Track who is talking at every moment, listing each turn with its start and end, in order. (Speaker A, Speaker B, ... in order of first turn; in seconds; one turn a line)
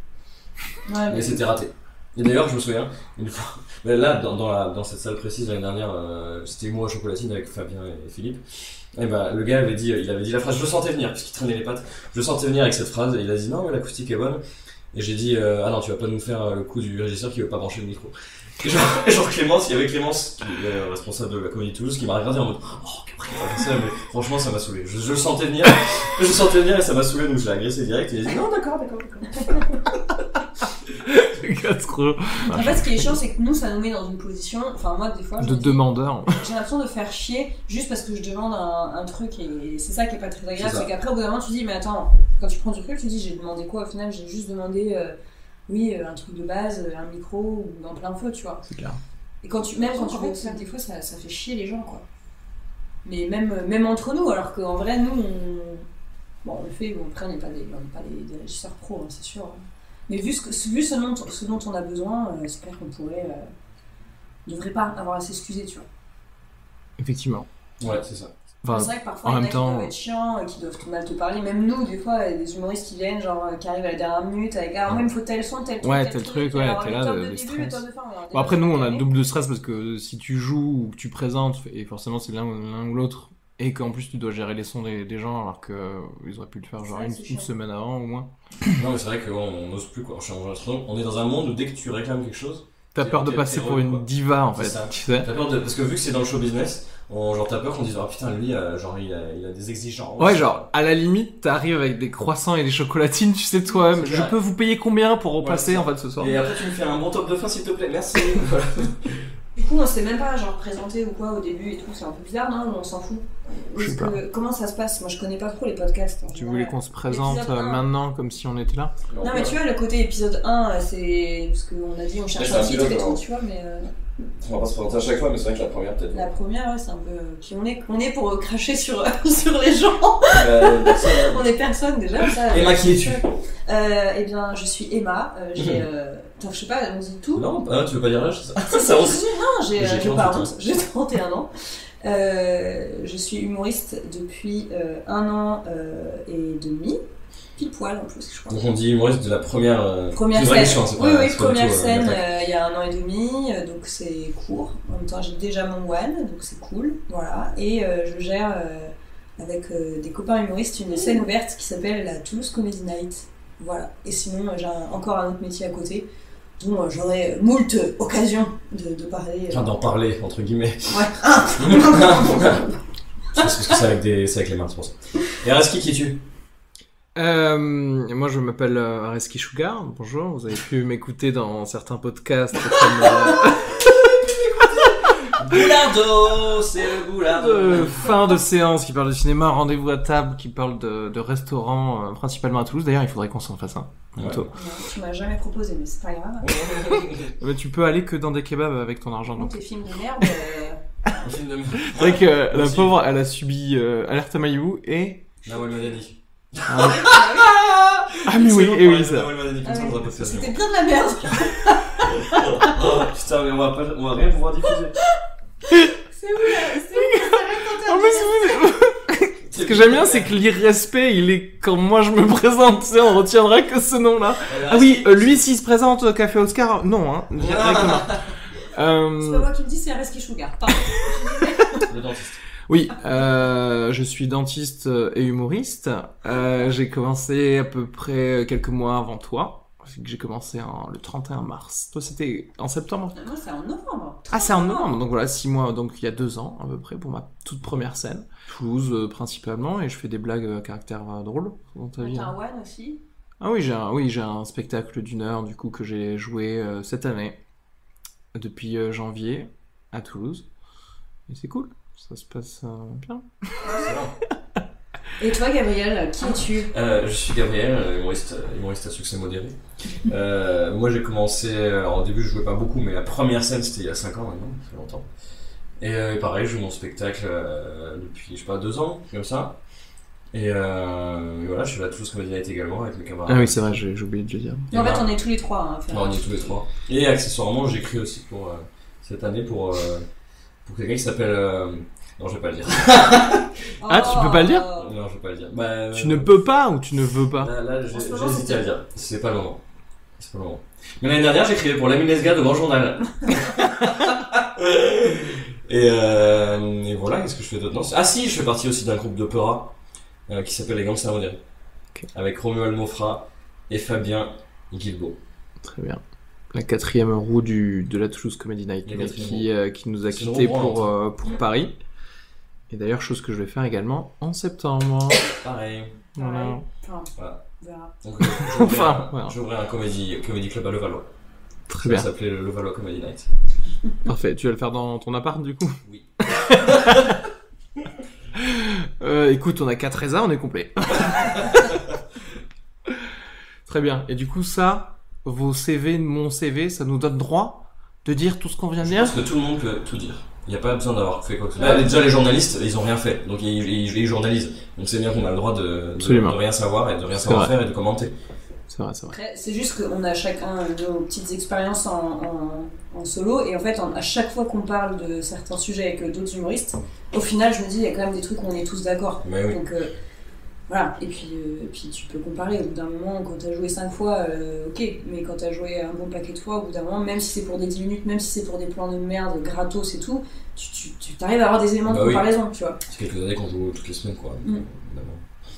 Speaker A: 0.9-1.4
Speaker B: 1.1-8.4
Speaker B: 8.9-14.4
Speaker B: 14.9-29.6
Speaker C: 30.9-33.1
Speaker A: 32.5-45.1
Speaker C: 35.4-36.4
Speaker B: 40.6-40.9
Speaker A: 45.7-48.6
Speaker C: 48.7-49.0
Speaker A: 49.4-52.0
Speaker C: 50.1-50.5
Speaker A: 53.0-55.9
Speaker A: 56.4-63.5
Speaker A: 64.5-65.9
Speaker C: 67.0-67.5
Speaker B: 67.8-68.3
Speaker C: 68.6-69.9
Speaker A: 68.7-79.1
Speaker C: 75.8-77.8
Speaker C: 78.3-88.3
Speaker A: 86.8-87.5
Speaker B: 88.8-100.7
Speaker C: 93.0-95.3
Speaker C: 100.2-106.4
Speaker B: 103.9-104.3
Speaker B: 105.4-109.3
Speaker A: 109.6-117.8
Speaker C: 113.8-114.2
Speaker C: 116.3-119.0
Speaker B: 119.1-119.6
Speaker A: 119.2-123.9
Speaker B: 122.3-123.2
Speaker B: 124.4-126.3
Speaker A: 126.1-137.5
Speaker B: 130.3-131.4
Speaker B: 132.5-133.2
Speaker B: 135.6-135.8
Speaker B: 137.3-140.5
Speaker A: 138.7-141.5
Speaker A: 142.0-147.0
Speaker A: 147.6-148.6
Speaker B: 148.5-152.2
Speaker A: 150.1-166.1
Speaker A: 166.6-169.7
Speaker B: 169.5-172.6
Speaker A: 170.9-172.7
Speaker B: 173.3-176.2
Speaker C: 177.2-184.1
Speaker C: 184.8-185.3
Speaker B: 185.3-188.3
Speaker C: 187.3-194.5
Speaker B: 194.2-194.5
Speaker A: 194.5-197.0
Speaker B: 196.4-197.3
Speaker C: 197.4-199.6
Speaker A: 199.3-201.3
Speaker B: 201.2-202.9
Speaker C: 201.8-205.2
Speaker B: 205.4-210.6
Speaker C: 206.7-207.1
Speaker A: 207.0-207.6
Speaker C: 208.2-209.3
Speaker A: 209.6-212.8
Speaker B: 211.4-215.0
Speaker A: 215.7-218.6
Speaker C: 216.8-229.5
Speaker B: 219.5-220.3
Speaker B: 224.5-225.4
Speaker B: 227.4-228.2
Speaker A: 229.2-231.9
Speaker B: 231.9-232.4
Speaker C: 232.7-243.2
Speaker A: 243.2-245.0
Speaker C: 244.3-252.3
Speaker A: 252.0-253.0
Speaker C: 253.4-257.4
Speaker C: 258.3-260.5
Speaker C: 261.3-263.7
Speaker B: 263.6-264.2
Speaker A: 265.2-266.7
Speaker B: 266.7-275.1
Speaker B: 275.8-279.6
Speaker B: 280.3-283.8
Speaker C: 283.3-284.7
Speaker B: 284.7-285.1
Speaker A: 284.7-286.4
Speaker B: 285.9-290.1
Speaker B: 290.6-296.3
Speaker A: 293.8-294.9
Speaker C: 293.9-294.7
Speaker C: 295.9-297.5
Speaker B: 297.4-299.6
Speaker A: 297.9-298.7
Speaker B: 300.2-309.8
Speaker B: 310.3-311.4
Speaker B: 312.1-315.2
Speaker C: 315.6-316.0
Speaker C: 316.5-321.7
Speaker B: 318.9-319.5
Speaker B: 320.1-320.9
Speaker C: 322.7-325.3
Speaker B: 325.3-326.0
Speaker C: 326.2-326.6
Speaker A: 326.2-327.9
Speaker B: 327.2-327.4
Speaker B: 328.0-331.1
Speaker C: 328.2-329.4
Speaker C: 331.7-332.1
Speaker B: 331.8-333.3
Speaker C: 334.1-337.2
Speaker B: 335.9-337.1
Speaker C: 338.4-341.7
Speaker B: 340.9-342.0
Speaker C: 343.7-349.1
Speaker B: 348.8-358.1
Speaker A: 351.6-352.0
Speaker C: 356.0-356.4
Speaker C: 357.2-357.5
Speaker C: 358.7-359.1
Speaker A: 359.1-369.9
Speaker B: 369.2-369.6
Speaker A: 370.7-382.8
Speaker B: 381.9-382.3
Speaker B: 382.9-385.2